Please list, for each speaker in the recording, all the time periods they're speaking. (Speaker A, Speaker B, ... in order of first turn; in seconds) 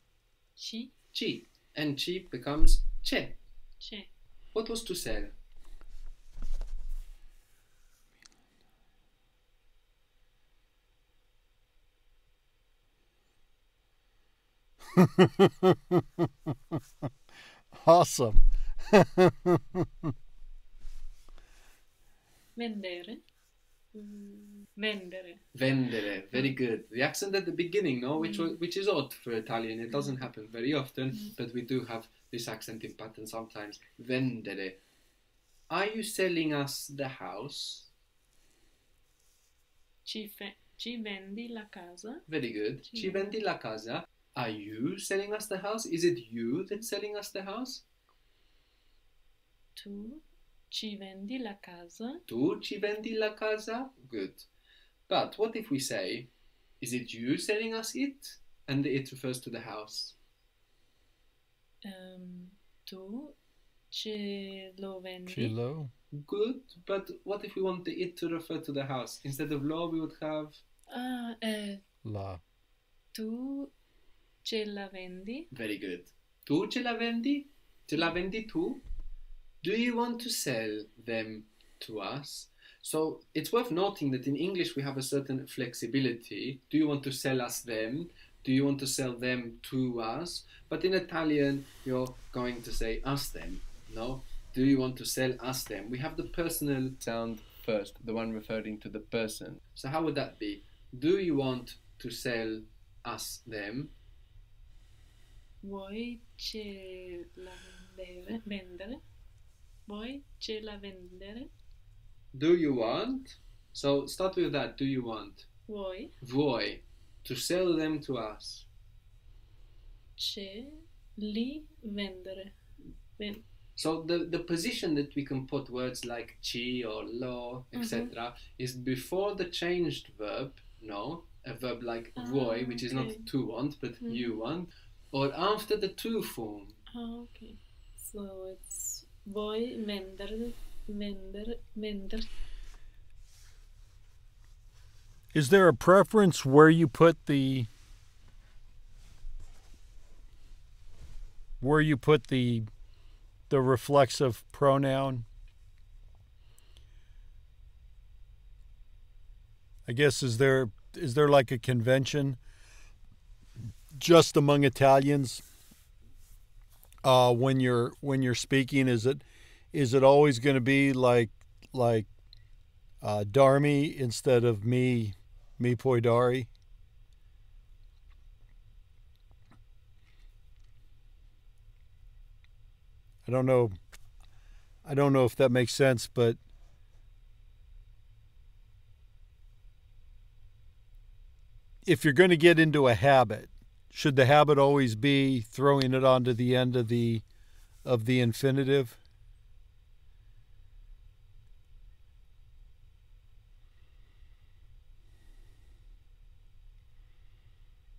Speaker A: 0.6-0.9, 3.8-4.1, 22.6-23.2, 23.9-25.4, 28.2-28.6, 40.0-42.2, 42.8-43.3, 49.8-52.2, 61.8-63.4, 63.9-65.5, 70.9-71.8, 73.1-73.7, 74.4-75.5, 105.6-109.0, 109.9-111.5, 115.7-116.1, 120.2-122.5, 123.2-123.4, 127.7-128.1, 132.2-133.3, 134.0-134.3, 136.9-142.3
Speaker B: 1.1-3.4, 4.5-5.3, 25.5-34.8, 35.7-37.9, 42.3-47.8, 52.3-54.5, 55.1-56.3, 56.8-60.1, 66.1-70.6, 75.5-78.8, 79.6-97.0, 99.7-103.9, 112.3-115.5, 116.2-118.7, 123.8-136.8
Speaker C: 14.9-16.3, 17.7-20.1, 65.3-65.9, 72.0-72.4, 145.3-147.7, 151.6-152.7, 153.5-155.2, 159.9-162.4, 163.9-165.4, 167.0-172.1, 173.0-176.5, 183.3-183.7, 184.8-186.4, 191.8-197.2, 197.8-199.0
Speaker D: 97.0-99.6